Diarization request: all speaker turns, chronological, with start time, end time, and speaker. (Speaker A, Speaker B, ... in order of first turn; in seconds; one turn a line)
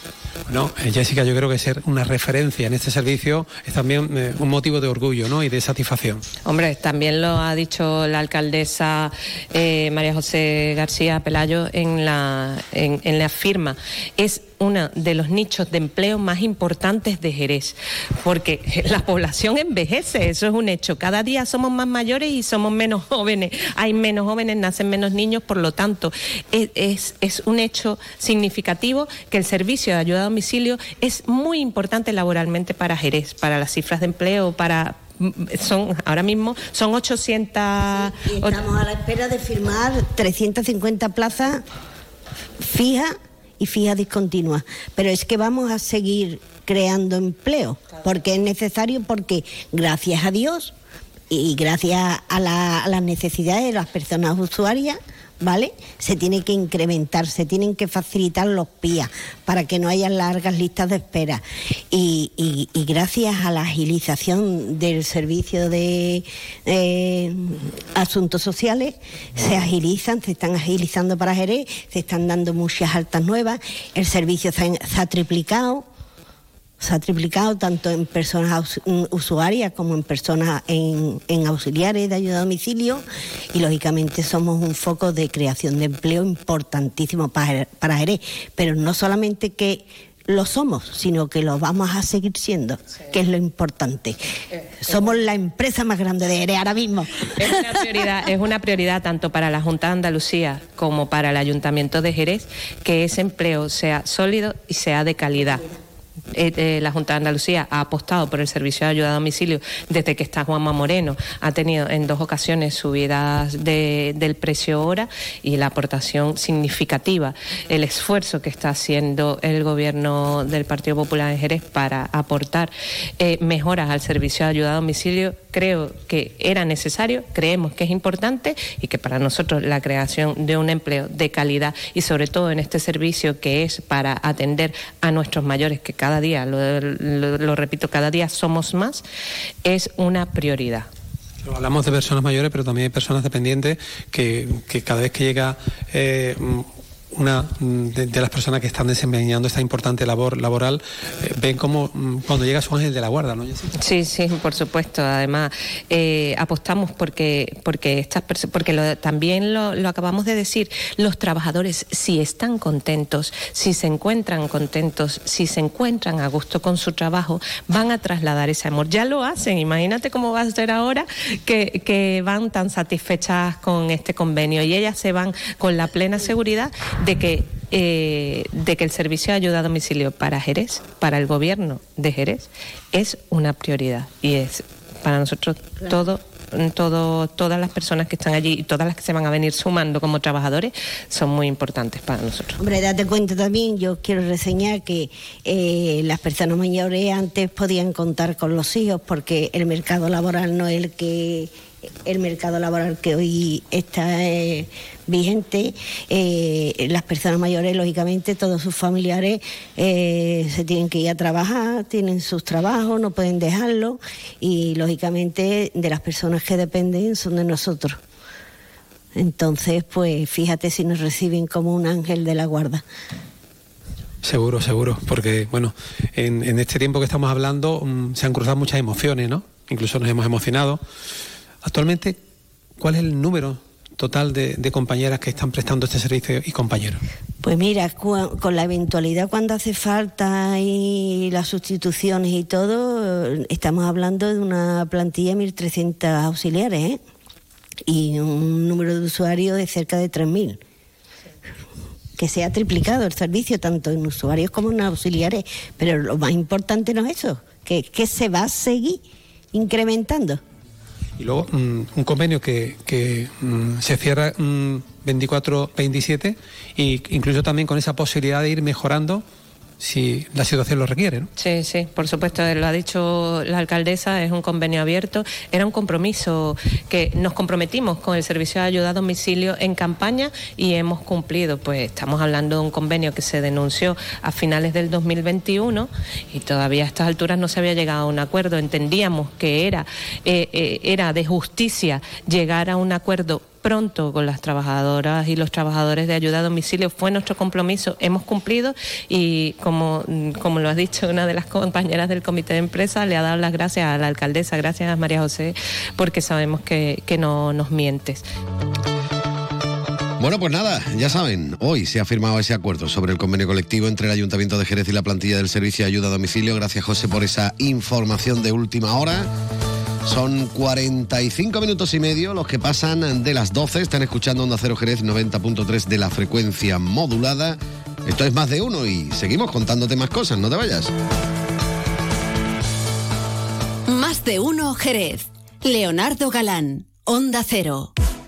Speaker A: 0.5-6.2
Speaker B: 6.4-38.6
Speaker C: 38.1-41.6
Speaker C: 42.6-50.7
Speaker C: 51.3-75.8
Speaker C: 76.8-94.2
Speaker C: 94.8-97.3
Speaker B: 97.4-105.7
Speaker B: 106.3-139.0
Speaker B: 139.6-140.9
Speaker A: 141.4-153.7
Speaker B: 153.8-192.6
Speaker C: 192.6-201.5
Speaker C: 202.0-218.0
Speaker C: 219.1-222.8
Speaker A: 224.2-230.8
Speaker A: 231.6-232.2
Speaker A: 232.8-237.0
Speaker C: 237.4-247.0
Speaker C: 247.9-250.6
Speaker C: 252.2-260.4
Speaker A: 261.2-269.2
Speaker A: 269.8-271.3
Speaker B: 271.4-308.2
Speaker D: 310.2-319.3
Speaker D: 320.0-330.9
Speaker E: 333.9-337.9